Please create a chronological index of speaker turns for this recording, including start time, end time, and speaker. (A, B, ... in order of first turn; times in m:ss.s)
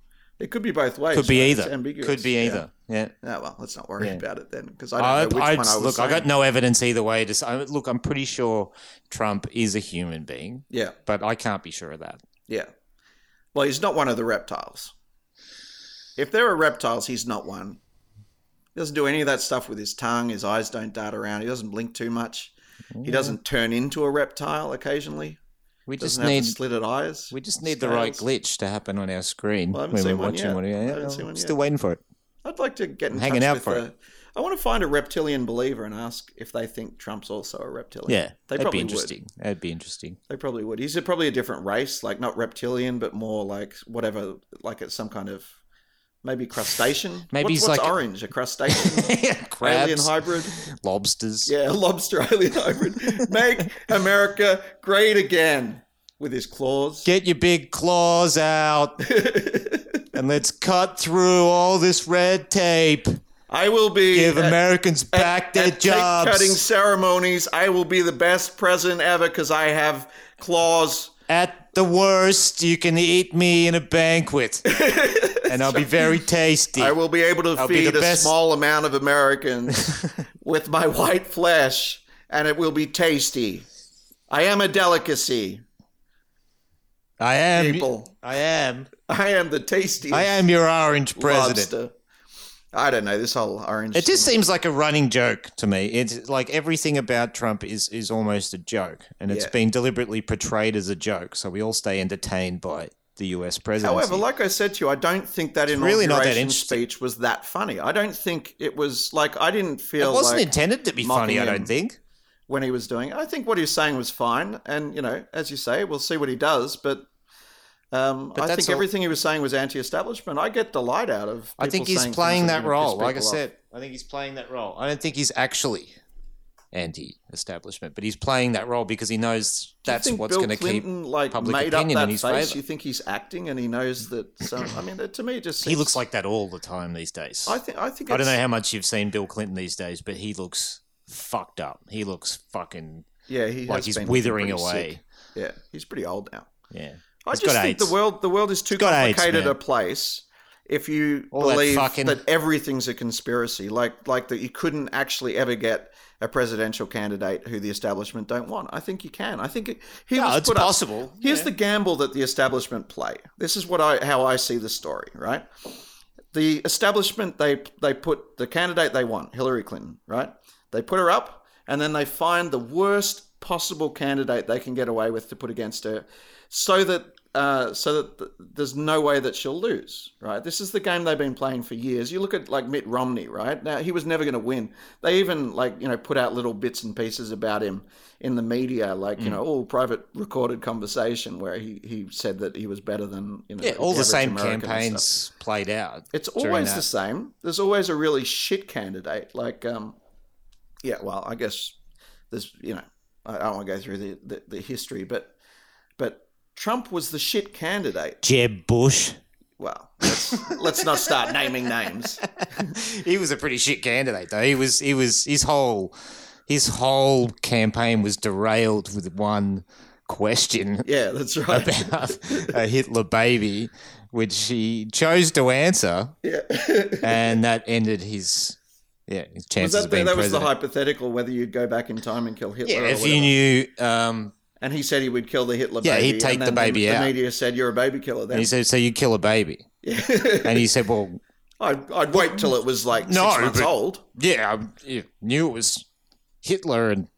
0:00.4-0:02.6 A
0:01.1-0:03.1 B
0:03.2-0:06.3 A
0:05.0-0:12.2 B
0:10.7-0:11.0 A
0:13.5-0:14.9 A
0:16.2-0:17.8 A
0:18.8-0:22.5 A
0:23.0-0:23.4 B
0:23.0-0:25.4 A
0:25.9-0:26.6 B
0:26.0-0:28.3 A
0:27.3-0:32.0 B
0:29.7-0:31.6 A
0:32.4-0:39.2 A
0:33.1-0:33.8 B
0:38.1-0:40.2 B
0:40.3-0:45.5 A
0:46.2-0:50.6 A
0:47.3-0:48.0 B
0:48.7-0:51.5 B
0:51.5-0:57.1 A
0:57.0-0:59.1 B
0:59.0-1:00.0 A
1:00.1-1:03.2 B
1:03.5-1:04.6 A
1:04.1-1:06.6 B
1:05.1-1:11.1 A
1:11.3-1:14.7 B
1:14.7-1:16.2 A
1:15.4-1:17.0 B
1:16.8-1:23.7 A
1:17.6-1:18.3 B
1:19.7-1:20.2 B
1:24.3-1:25.6 A
1:27.2-1:28.9 B
1:27.6-1:28.1 A
1:29.1-1:30.4 A
1:30.1-1:31.7 B
1:31.2-1:31.9 A
1:32.7-1:34.4 A
1:34.0-1:44.2 B
1:39.3-1:39.5 A
1:43.8-1:50.5 A
1:45.7-1:46.8 B
1:50.0-1:52.0 B
1:51.0-1:51.7 A
1:52.5-1:57.1 A
1:57.9-2:03.4 A
1:58.4-1:58.9 B
2:01.6-2:06.0 B
2:06.7-2:12.6 B
2:09.9-2:16.0 A
2:15.6-2:23.1 B
2:17.5-2:18.4 A
2:23.3-2:26.5 A
2:23.7-2:25.0 B
2:26.7-2:28.0 B
2:27.2-2:45.5 A
2:28.8-2:29.6 B
2:31.3-2:32.2 B
2:40.2-2:41.5 B
2:46.3-3:15.1 A
3:13.6-3:16.8 B
3:16.1-3:20.0 A
3:20.8-3:21.8 A
3:22.3-3:25.3 A
3:26.0-3:28.2 A
3:28.2-3:29.2 B
3:29.6-3:32.7 A
3:30.0-3:31.5 B
3:32.4-3:36.0 B
3:36.5-3:40.9 B
3:40.8-3:42.5 A
3:41.5-3:46.2 B
3:46.2-3:47.4 A
3:47.0-3:48.6 B
3:49.1-3:50.5 B
3:49.6-3:53.3 A
3:52.6-3:54.3 B
3:54.6-3:58.5 A
3:55.8-3:57.1 B
3:58.3-3:59.7 B
3:59.8-4:00.7 A
4:00.4-4:01.2 B
4:01.6-4:04.0 A
4:02.1-4:05.9 B
4:06.4-4:07.1 B